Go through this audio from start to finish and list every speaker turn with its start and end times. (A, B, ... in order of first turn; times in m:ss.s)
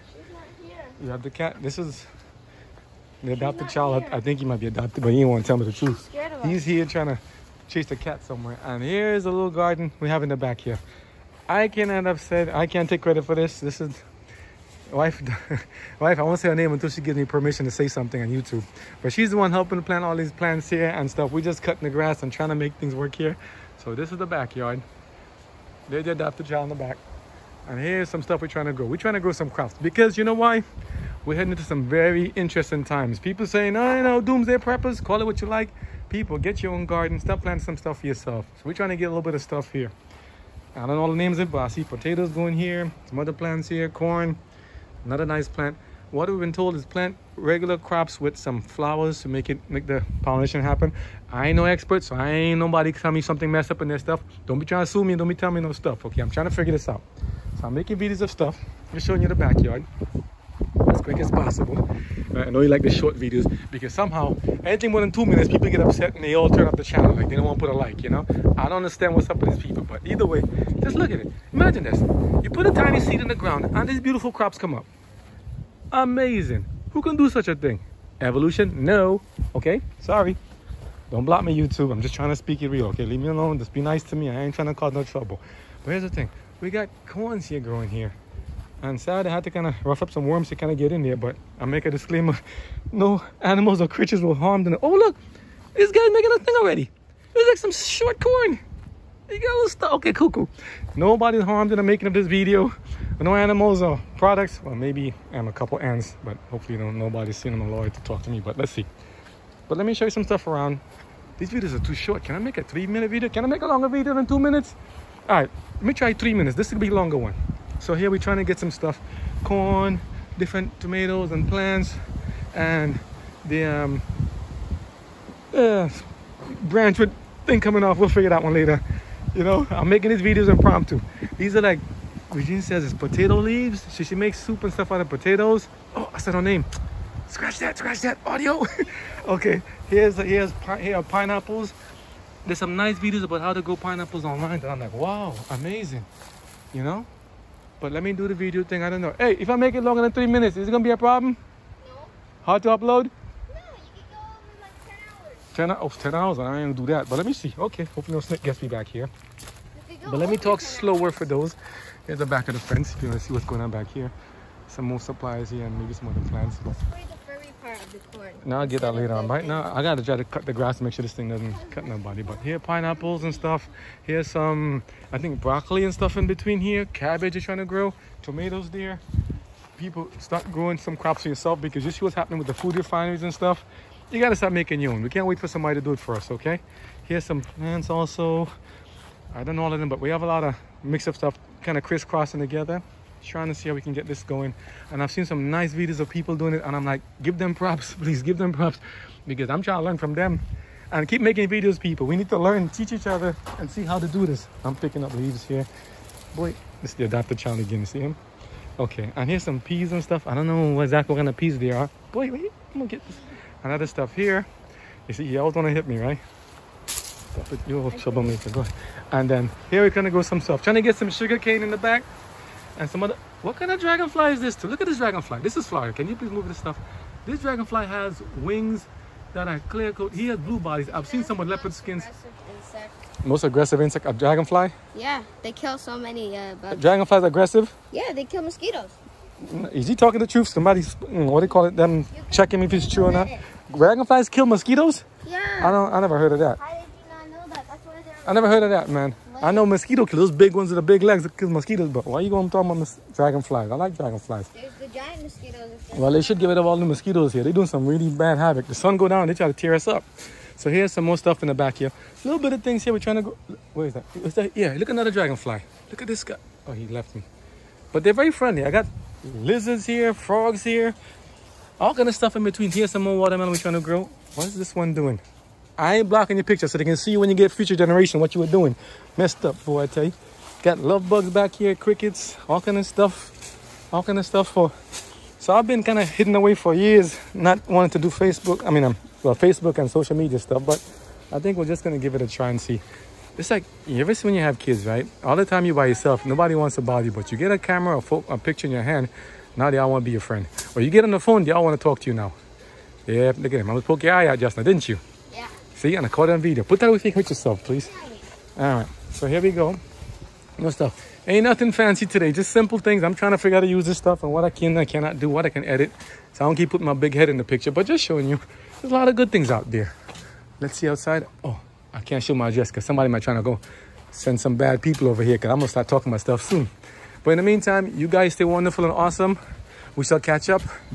0:00.1-0:01.0 A
0:01.0-0:02.1 B
0:03.2-0:10.8 B
0:03.3-0:04.2 A
0:05.8-0:06.7 A
0:11.5-0:14.0 B
0:14.9-0:24.8 B
0:25.9-0:27.0 B
0:27.7-0:30.6 B
0:31.2-0:39.9 B
0:40.8-0:44.4 B
0:45.0-0:57.0 B
0:57.6-0:59.9 B
1:00.9-1:14.9 B
1:15.9-1:20.4 B
1:21.1-1:28.2 B
1:28.8-1:32.4 B
1:32.9-1:35.2 B
1:35.8-1:38.6 B
1:39.3-1:48.9 B
1:49.7-1:50.8 B
1:51.4-1:54.8 B
1:55.3-2:02.0 B
2:02.5-2:04.1 B
2:05.5-2:08.8 B
2:09.3-2:16.7 B
2:17.3-2:21.8 B
2:22.4-2:26.1 B
2:26.7-2:27.1 B
2:27.8-2:31.4 B
2:31.8-2:32.1 A
2:32.4-2:33.1 B
2:33.5-2:35.5 A
2:35.5-2:39.1 B
2:39.7-2:41.3 A
2:40.0-2:44.1 B
2:44.7-2:46.8 B
2:46.6-2:49.7 A
2:48.4-2:59.0 B
2:51.6-2:52.5 A
2:59.8-3:08.5 B
3:09.3-3:25.7 B
3:26.3-3:28.2 B
3:28.8-3:34.5 B
3:35.1-3:36.2 B
3:37.3-3:42.1 B
3:37.9-3:38.4 A
3:42.8-3:52.1 B
3:50.5-3:53.1 A
3:53.2-3:54.7 B
3:54.9-3:56.8 A
3:56.7-3:57.7 B
3:57.9-3:59.0 A
3:59.4-4:05.0 B
4:02.1-4:03.4 A
4:05.2-4:05.8 A
4:05.6-4:06.6 B
4:06.5-4:09.7 A
4:08.2-4:14.5 B
4:14.5-4:16.6 A
4:15.9-4:20.0 B
4:20.6-4:27.3 B
4:27.9-4:31.0 B
4:31.8-4:35.2 B
4:35.8-4:43.3 B
4:43.9-4:44.7 B
4:45.4-4:52.8 B
4:53.4-5:02.3 B
5:03.1-5:05.0 B
5:05.8-5:07.9 B
5:07.8-5:08.3 A
5:08.6-5:09.8 B
5:10.6-5:19.9 B
5:20.6-5:23.6 B
5:24.1-5:26.7 B
5:27.2-5:29.4 B
5:30.0-5:30.6 B